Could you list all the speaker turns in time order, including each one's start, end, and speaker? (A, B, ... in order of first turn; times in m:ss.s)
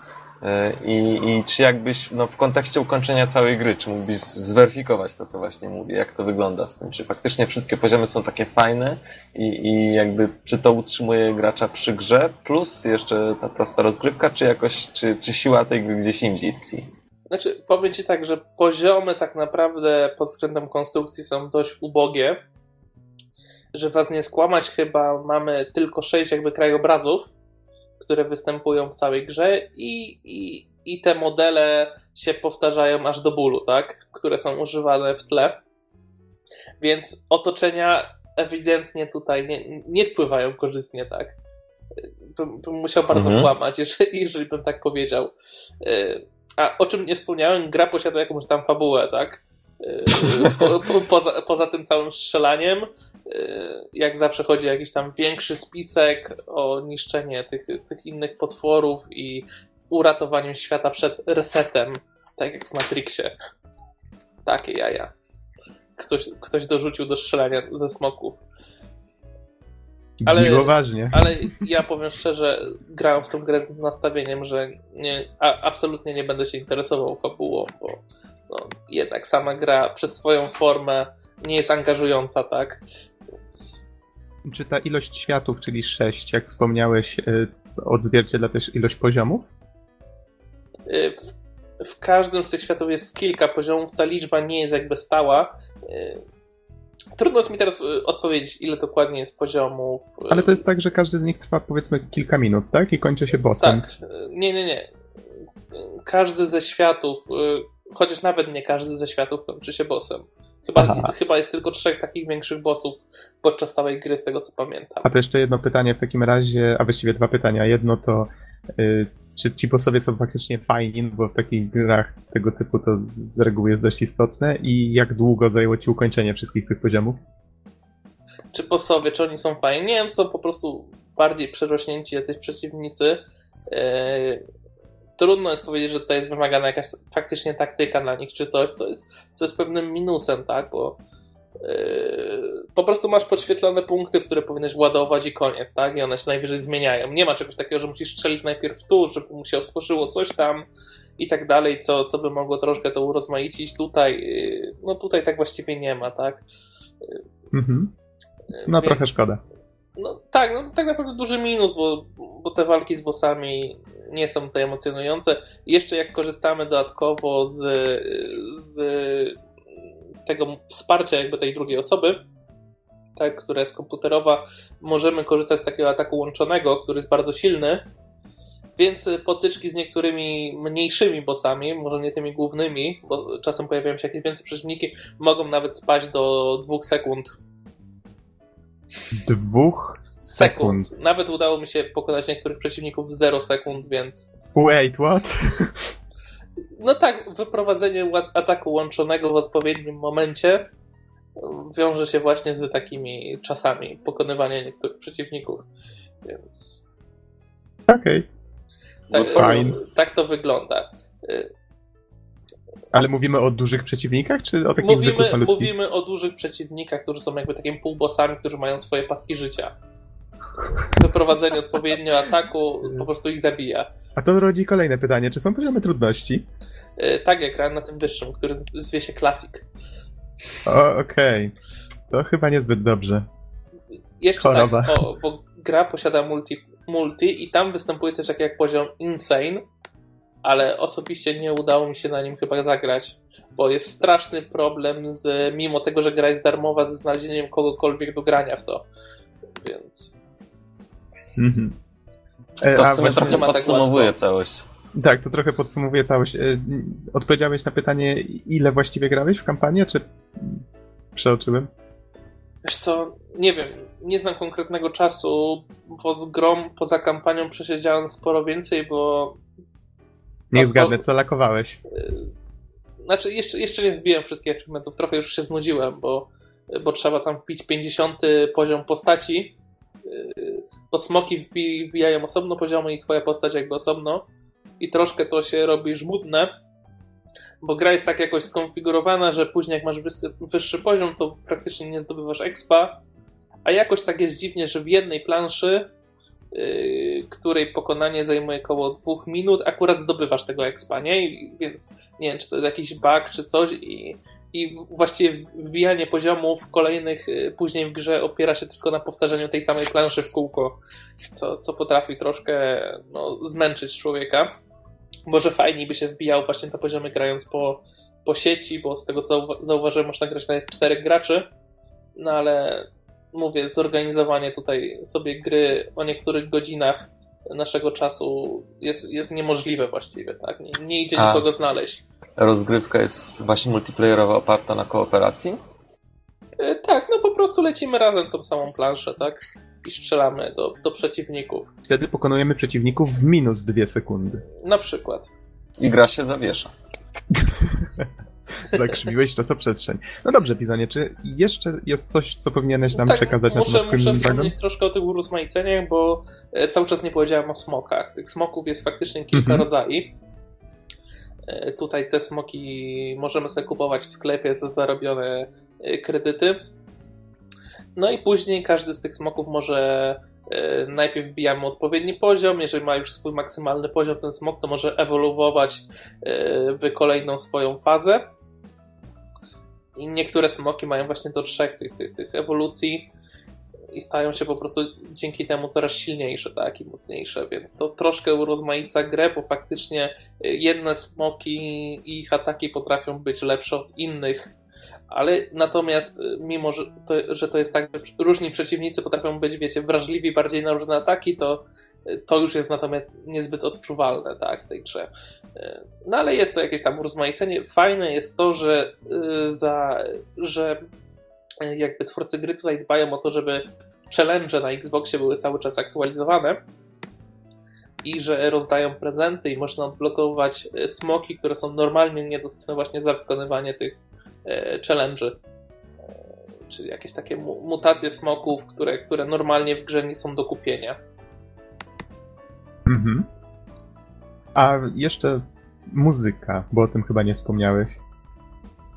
0:00.4-0:16.9 A
0:17.3-0:22.4 B
0:23.7-0:27.3 B
0:28.0-0:35.6 B
0:36.8-0:41.3 B
0:42.0-0:45.3 B
0:43.1-0:43.5 A
0:45.8-1:03.3 B
0:50.3-0:50.5 A
1:04.4-1:05.1 B
1:06.0-1:08.4 B
1:10.2-1:11.6 C
1:10.2-1:22.8 B
1:23.5-1:23.8 B
1:24.4-1:29.5 C
1:30.9-1:31.2 B
1:31.8-1:36.2 B
1:37.2-1:40.6 B
1:40.3-1:43.9 C
1:43.6-1:44.9 B
1:45.7-1:55.1 B
1:50.8-1:51.1 C
1:55.0-2:07.2 C
2:08.5-2:14.4 B
2:15.2-2:21.0 B
2:21.6-2:30.7 B
2:31.2-2:36.4 B
2:37.5-2:37.9 C
2:38.6-2:39.0 B
2:38.6-2:39.4 C
2:40.0-2:49.4 B
2:50.2-2:52.2 B
2:53.2-2:57.9 B
2:58.8-3:07.4 B
3:09.1-3:10.9 C
3:10.4-3:14.2 B
3:14.5-3:15.9 C
3:16.8-3:20.7 B
3:21.4-3:25.6 B
3:26.2-3:26.8 B
3:27.9-3:28.2 C
3:29.1-3:31.5 B
3:29.1-3:29.6 A
3:29.2-3:29.8 C
3:32.9-3:35.7 C
3:34.8-3:39.7 B
3:40.9-3:43.9 B
3:44.2-3:46.4 C
3:47.0-3:49.6 B
3:50.6-3:51.5 C
3:52.1-3:53.2 C
3:54.2-3:59.6 B
3:54.3-3:55.0 C
4:00.4-4:08.8 B
4:09.6-4:10.1 B
4:11.4-4:11.7 C
4:12.6-4:13.5 C
4:12.7-4:14.6 A
4:13.0-4:14.1 B
4:14.9-4:20.6 C
4:21.1-4:21.7 C
4:22.6-4:29.4 B
4:30.5-4:31.8 C
4:30.6-4:31.0 B
4:31.9-4:32.2 B
4:33.0-4:44.2 B
4:44.8-4:46.5 B
4:47.6-4:53.0 B
4:53.6-4:55.9 B
4:56.5-5:10.8 B
5:11.3-5:14.5 B
5:15.3-5:21.5 B
5:22.2-5:32.0 B
5:31.1-5:31.5 A
5:32.4-5:35.6 A
5:36.6-5:41.7 B
5:41.8-5:44.4 C
5:44.6-5:45.3 B
5:45.8-5:46.7 A
5:47.3-5:48.1 C
5:48.6-5:54.5 C
5:52.9-6:00.1 B
5:59.3-5:59.7 C
6:01.5-6:06.6 B
6:08.0-6:18.2 B
6:20.0-6:23.1 B
6:23.9-6:34.5 B
6:35.1-6:50.8 B
6:51.6-6:56.6 B
6:58.0-7:05.4 B
7:06.7-7:11.0 B
7:12.8-7:13.3 C
7:14.5-7:18.0 C